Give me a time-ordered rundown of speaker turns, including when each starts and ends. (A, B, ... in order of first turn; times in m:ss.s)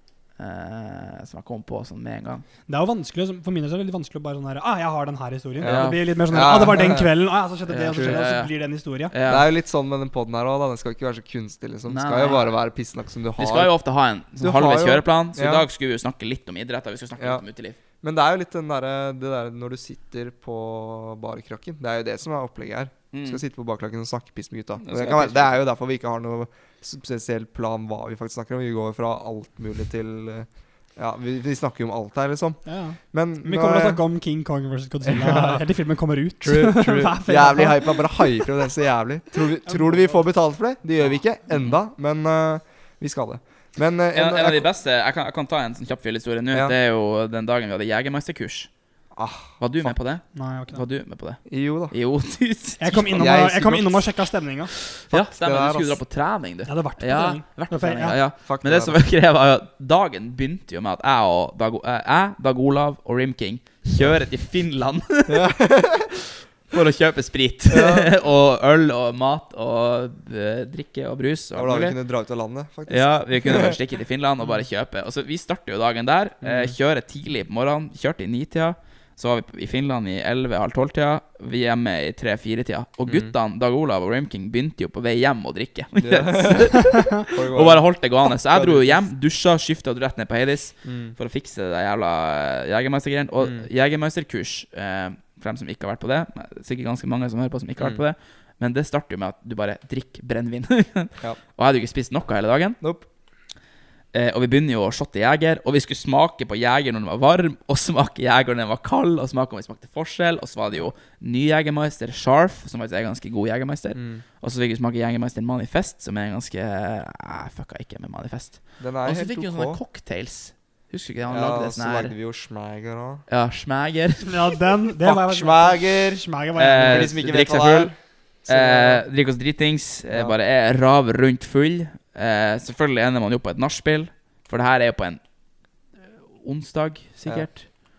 0:00.4-0:02.4 A
0:02.7-0:09.1 B
0:05.6-0:07.1 C
0:05.6-0:06.6 A
0:07.7-0:08.5 A
0:07.9-0:08.2 C
0:09.1-0:09.5 A
0:09.3-0:13.7 C
0:11.9-0:12.5 A
0:13.4-0:17.8 A
0:14.4-0:15.7 C
0:17.2-0:17.4 C
0:18.0-0:32.6 C
0:23.1-0:23.4 A
0:24.8-0:25.6 A
0:32.6-0:38.7 B
0:33.1-0:34.0 C
0:35.1-0:35.6 C
0:36.4-0:44.7 C
0:39.6-0:40.2 B
0:44.1-0:48.7 A
0:49.1-0:50.0 C
0:49.6-0:53.3 A
0:50.3-0:50.8 B
0:51.5-0:51.9 C
0:52.8-0:54.7 B
0:53.1-0:54.0 C
0:54.9-1:05.5 A
0:55.1-0:56.0 C
0:56.7-0:58.2 B
0:58.5-0:59.0 C
1:05.3-1:06.1 C
1:06.7-1:12.0 A
1:07.7-1:08.1 C
1:11.5-1:13.8 C
1:12.9-1:42.8 A
1:16.4-1:16.7 C
1:23.1-1:23.3 C
1:26.0-1:27.9 C
1:28.5-1:29.0 C
1:30.8-1:31.2 C
1:33.4-1:33.7 C
1:42.8-1:43.1 C
1:44.1-2:02.1 A
1:54.0-1:54.2 C
1:58.8-1:59.8 C
2:01.3-2:03.2 C
2:03.3-2:04.6 A
2:04.2-2:07.2 B
2:05.0-2:06.3 C
2:06.6-2:08.0 A
2:06.8-2:07.9 C
2:08.5-2:09.0 C
2:08.5-2:15.2 A
2:10.1-2:10.4 C
2:16.3-2:17.7 A